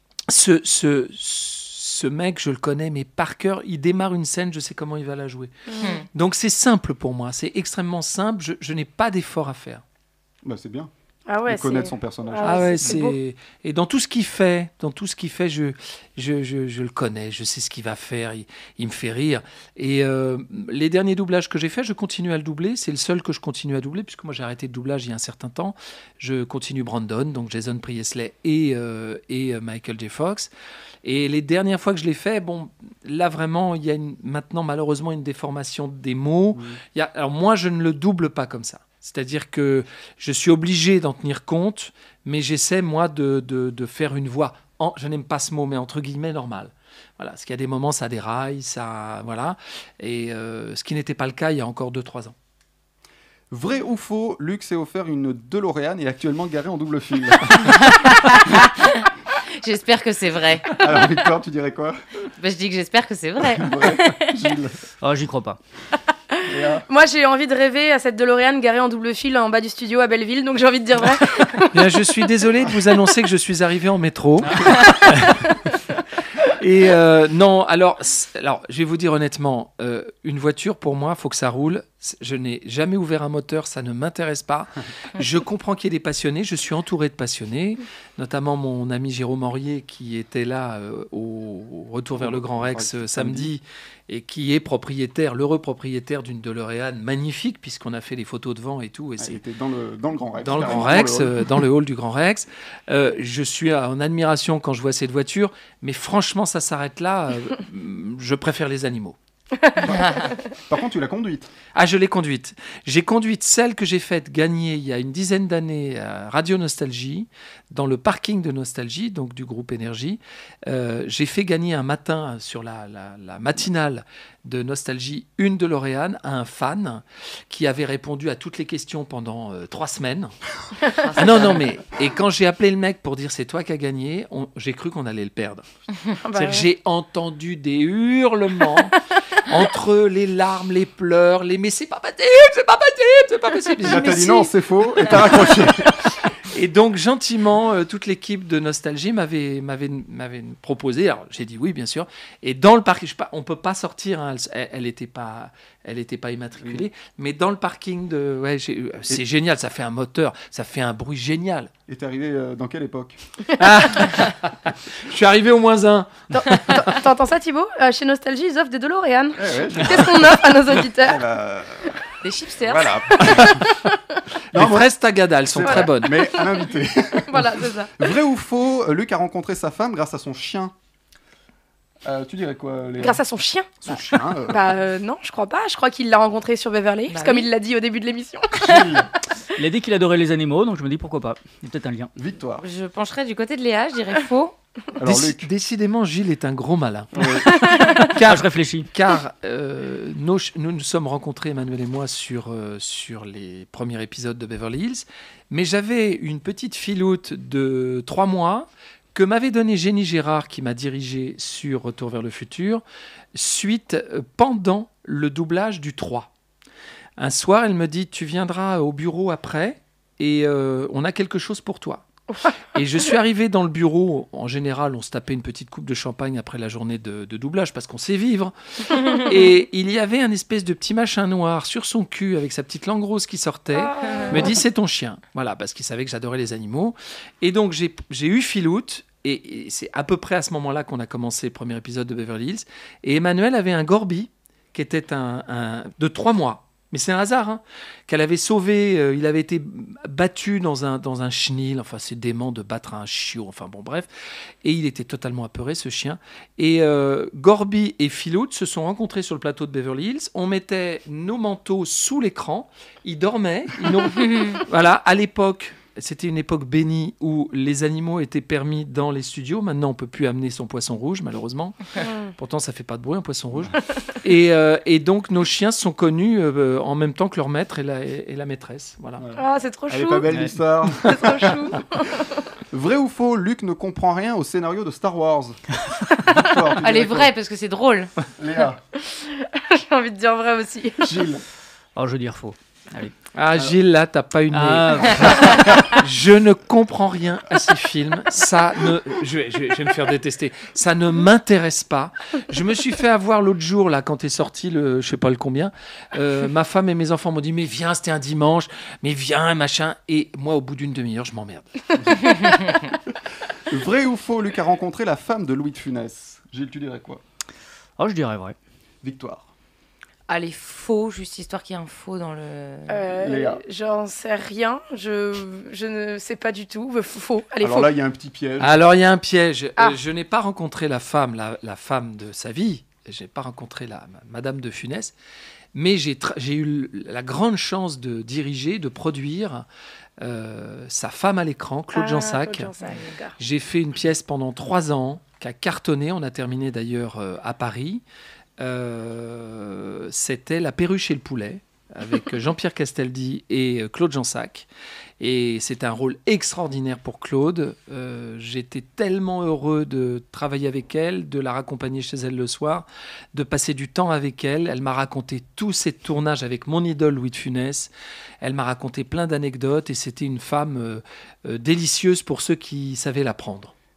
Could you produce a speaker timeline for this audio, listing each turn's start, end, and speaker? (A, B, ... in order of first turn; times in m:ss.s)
0:00.3-0:05.5 A
0:05.7-0:06.0 B
0:05.8-0:06.1 C
0:06.1-0:09.8 A
0:10.4-0:10.9 D
0:11.3-0:13.2 B
0:11.4-0:12.9 D
0:12.4-0:30.5 A
0:31.0-0:52.3 A
0:36.5-0:36.8 D
0:53.5-0:57.7 D
0:57.6-0:59.0 C
0:59.6-1:00.8 C
1:00.8-1:02.0 D
1:02.4-1:04.4 C
1:03.6-1:04.8 D
1:05.0-1:05.6 E
1:06.4-1:06.8 D
1:06.9-1:11.7 B
1:11.7-1:15.1 A
1:14.4-1:14.7 E
1:16.6-1:39.4 A
1:32.2-1:33.5 D
1:39.2-1:41.6 D
1:40.4-1:49.2 A
1:50.7-1:51.5 D
1:51.7-2:10.3 A
2:11.1-2:11.6 C
2:11.2-2:15.7 A
2:16.2-2:16.7 B
2:16.3-2:19.0 A
2:19.5-2:24.4 A
2:23.8-2:26.0 D
2:23.9-2:24.3 B
2:26.5-2:41.7 A
2:36.6-2:36.9 D
2:41.9-2:43.2 D
2:43.6-2:46.9 A
2:46.3-2:51.2 B
2:49.4-2:52.0 D
2:52.6-2:53.9 B
2:52.6-2:53.6 D
2:54.5-3:00.7 D
2:54.5-2:56.2 A
2:55.6-2:56.6 B
2:57.3-2:57.9 B
3:02.0-3:03.2 D
3:03.0-3:03.7 B
3:03.8-3:04.7 D
3:04.5-3:09.0 B
3:07.1-3:07.5 C
3:08.6-3:09.1 D
3:09.6-3:12.1 E
3:12.2-3:12.6 D
3:12.6-3:14.5 C
3:15.0-3:15.5 D
3:15.0-3:17.3 A
3:17.1-3:17.5 D
3:18.1-3:32.8 A
3:18.2-3:18.9 E
3:33.3-3:36.3 A
3:37.2-3:42.0 A
3:42.7-3:48.5 A
3:48.9-3:49.3 B
3:49.2-4:14.1 A
3:53.7-3:54.6 B
4:14.6-4:31.8 A
4:24.2-4:24.6 C
4:32.0-4:32.3 B
4:32.4-4:39.2 A
4:39.2-4:41.7 D
4:39.4-4:40.3 B
4:40.3-4:40.5 E
4:41.0-4:42.2 B
4:42.7-4:45.6 D
4:46.3-4:47.3 D
4:46.8-4:48.1 C
4:48.4-4:48.8 D
4:49.1-4:51.1 B
4:51.0-4:51.4 D
4:52.0-4:53.1 E
4:53.3-5:11.7 A
4:54.5-4:55.6 E
5:12.0-5:12.3 D
5:13.7-5:17.2 D
5:18.0-5:18.6 E
5:19.0-5:19.5 D
5:20.3-5:23.1 C
5:22.9-5:27.9 B
5:23.1-5:23.6 D
5:27.6-5:28.8 D
5:28.6-5:35.1 A
5:35.7-5:39.6 A
5:40.2-5:42.7 A
5:41.9-5:43.3 B
5:43.4-5:48.0 A
5:48.6-5:54.7 A
5:55.2-6:13.7 A